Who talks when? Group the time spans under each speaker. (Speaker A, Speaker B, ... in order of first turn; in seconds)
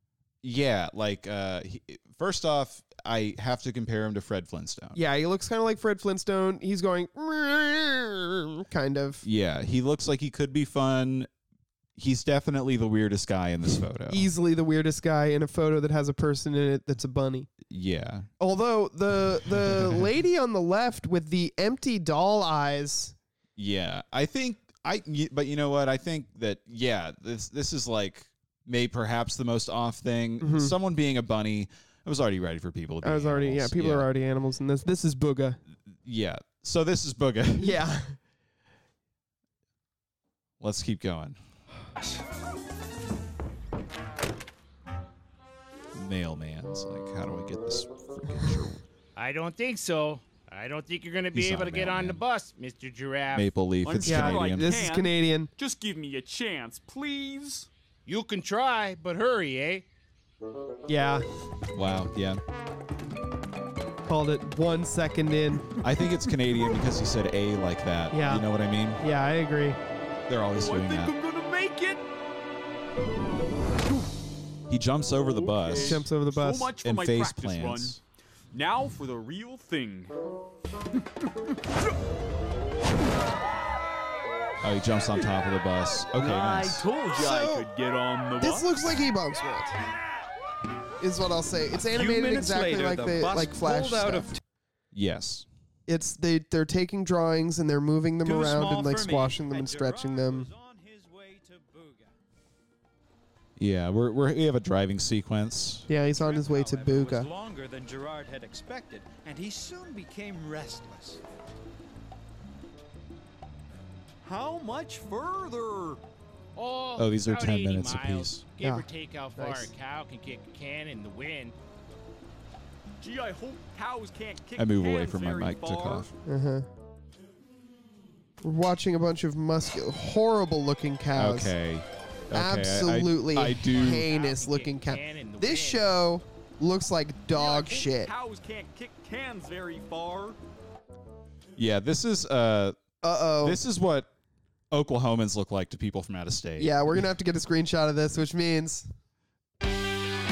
Speaker A: 0.4-5.0, 9.2-11.3, 11.9-14.3, 17.6-18.3, 19.6-20.1, 23.6-34.1, 35.9-37.8, 40.6-41.4, 45.9-48.8, 51.3-52.2, 53.3-54.7, 61.7-62.4, 65.8-69.0, 70.3-71.1, 74.7-76.0, 76.8-78.0, 84.6-86.9, 94.9-95.5, 103.6-105.9, 117.0-118.4, 124.6-126.1, 131.1-134.1, 141.6-142.8, 143.3-144.1, 144.7-146.8
Speaker B: 4.9-9.2, 14.1-17.5, 18.4-23.1, 30.4-30.8, 33.0-35.6, 37.6-38.1, 54.0-55.5, 60.9-61.3, 64.1-65.7, 68.1-68.4, 69.0-69.8, 75.7-76.7, 87.1-87.7, 88.4-89.8, 91.0-94.4, 95.9-100.5, 105.9-107.3, 118.6-119.7, 126.3-126.7, 128.4-131.5, 132.3-138.1, 143.0-143.6, 146.6-148.9
Speaker C: 49.1-53.5, 58.1-59.8, 116.5-121.5, 133.7-135.9
Speaker D: 53.9-57.7, 70.5-72.0, 75.2-78.0, 78.5-80.1, 86.2-88.8, 114.2-116.0, 123.0-126.1, 137.3-140.4
Speaker E: 91.9-94.4, 98.2-102.1, 106.2-111.2